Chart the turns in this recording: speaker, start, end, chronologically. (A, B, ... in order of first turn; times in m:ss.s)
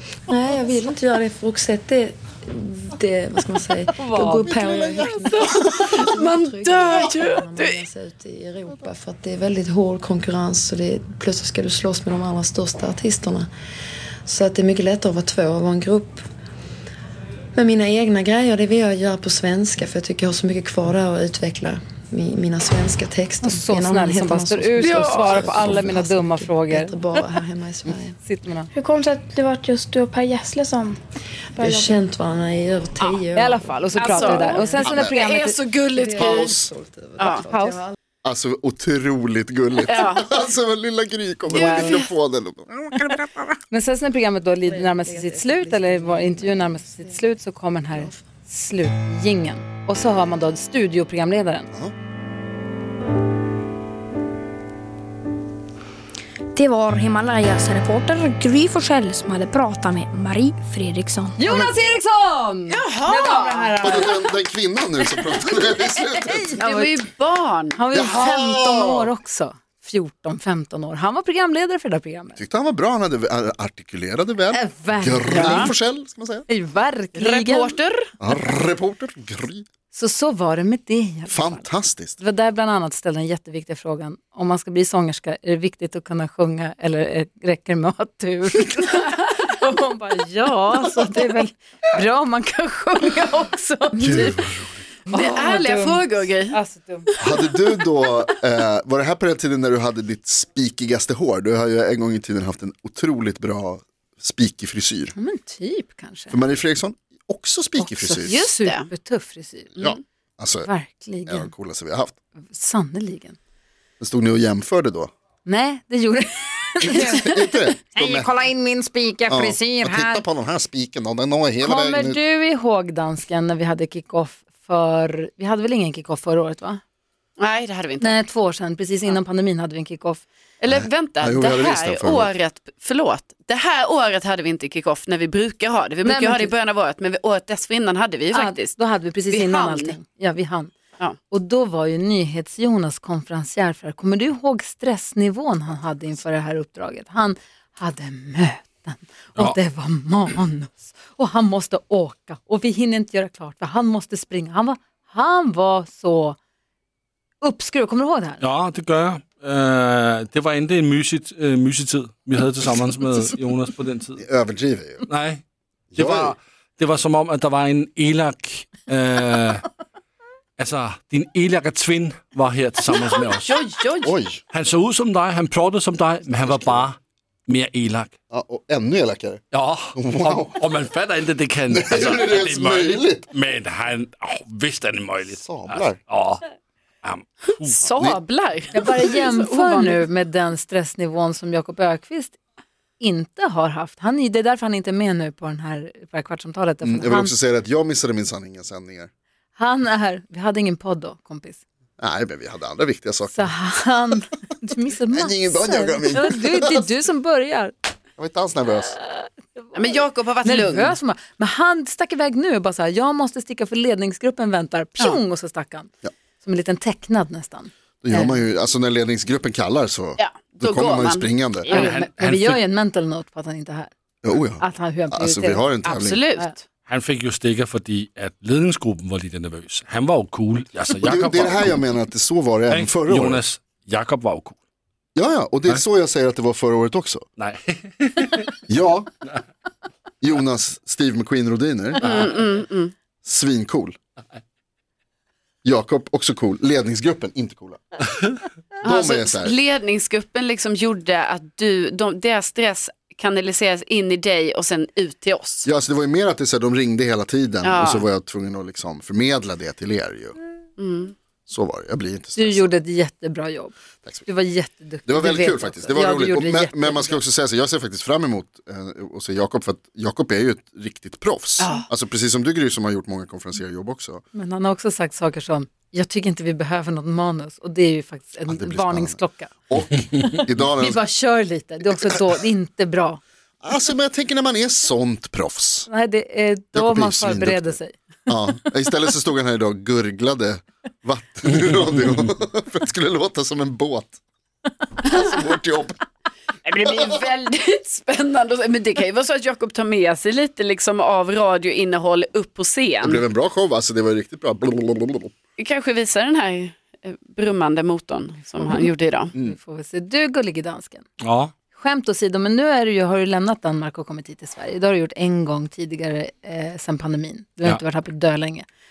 0:00.3-0:13.5 A
0:04.0-0:04.6 B
0:04.4-0:05.9 C
0:05.3-0:07.8 D
0:14.3-0:16.2 A
0:17.6-0:28.2 A
0:23.4-0:27.0 B
0:24.8-0:25.4 D
0:28.2-0:28.7 B
0:28.7-0:31.0 E
0:31.6-0:32.0 E
0:31.6-0:35.0 A
0:33.4-0:35.6 B
0:33.9-0:36.7 D
0:34.8-0:35.2 C
0:35.9-0:38.0 A
0:37.2-0:37.5 D
0:37.4-0:37.8 B
0:38.2-0:43.5 C
0:39.9-0:40.4 D
0:41.5-0:42.1 D
0:41.5-0:42.0 B
0:43.7-0:51.7 B
0:44.6-0:47.3 A
0:47.9-0:48.2 A
0:56.5-1:01.4 F
1:01.4-1:04.3 B
1:01.5-1:01.8 C
1:02.7-1:03.9 D
1:03.8-1:06.6 C
1:05.1-1:07.0 B
1:06.6-1:07.8 D
1:07.8-1:12.4 B
1:07.9-1:09.1 C
1:12.4-1:16.5 C
1:14.5-1:15.7 B
1:15.3-1:15.7 D
1:16.5-1:17.8 B
1:17.2-1:18.1 D
1:18.2-1:19.6 C
1:19.9-1:21.7 B
1:21.3-1:22.2 C
1:22.2-1:34.4 B
1:34.0-1:34.8 C
1:35.1-1:37.1 B
1:35.1-1:36.6 D
1:37.2-1:45.1 C
1:45.2-1:46.4 B
1:46.3-1:48.4 C
1:47.8-1:49.8 B
1:48.4-1:48.9 D
1:49.8-1:50.0 D
1:49.8-1:50.7 C
1:50.6-1:51.5 B
1:51.3-1:52.2 C
1:52.5-1:53.4 B
1:54.0-1:55.1 C
1:55.4-2:00.2 B
1:56.8-1:58.3 C
1:59.3-2:02.2 C
2:01.6-2:06.8 B
2:07.4-2:08.2 D
2:08.0-2:10.3 B
2:10.6-2:18.8 D
2:10.7-2:12.3 C
2:16.0-2:16.5 B
2:18.3-2:20.7 B
2:19.3-2:20.0 D
2:21.3-2:36.4 B
2:37.4-2:38.4 B
2:38.4-2:44.2 G
2:44.2-2:45.0 C
2:45.1-2:45.4 G
2:46.0-2:46.4 C
2:46.0-2:49.6 G
2:50.6-2:53.6 G
2:53.2-2:54.1 D
2:54.0-2:54.4 C
2:54.5-2:58.1 G
2:56.5-2:56.8 C
2:58.3-2:59.4 C
2:59.5-3:06.4 G
3:00.0-3:00.6 C
3:01.7-3:03.3 C
3:05.4-3:06.0 C
3:07.0-3:07.9 G
3:07.7-3:10.0 D
3:08.7-3:12.4 B
3:13.0-3:17.3 B
3:16.8-3:19.1 C
3:19.6-3:21.6 B
3:22.0-3:23.5 C
3:23.3-3:27.7 B
3:25.1-3:26.9 C
3:28.2-3:29.0 C
3:29.7-3:31.0 D
3:30.4-3:35.9 B
3:36.4-3:38.5 B
3:38.0-3:41.7 C
3:40.2-3:42.0 D
3:41.7-3:43.9 B
3:41.7-3:42.6 G
3:44.2-3:46.2 C
3:44.6-3:45.8 B
3:45.8-3:46.6 D
3:46.9-3:51.8 G
3:51.0-3:53.4 C
3:52.7-3:54.6 G
3:55.2-3:57.2 C
3:57.4-3:58.6 G
3:58.7-3:59.1 C
4:00.2-4:02.3 C
4:02.0-4:02.9 D
4:03.2-4:04.0 C
4:05.6-4:07.8 C
4:08.8-4:09.6 C
4:08.8-4:15.7 D
4:15.6-4:20.4 C
4:17.6-4:18.1 D
4:20.8-4:21.2 D
4:21.5-4:22.7 C
4:22.4-4:27.2 B
4:25.1-4:34.2 C
4:31.6-4:31.9 D
4:34.3-4:39.5 B
4:38.5-4:39.2 C
4:39.7-4:41.0 C
4:40.2-4:43.2 B
4:43.6-4:45.9 C
4:45.9-4:48.4 B
4:46.8-4:47.8 C
4:48.3-4:54.2 C
4:55.0-4:56.0 C
4:56.6-5:03.2 D
5:03.0-5:05.3 C
5:05.6-5:09.3 D
5:09.4-5:11.0 B
5:11.2-5:11.5 G
5:11.7-5:18.7 B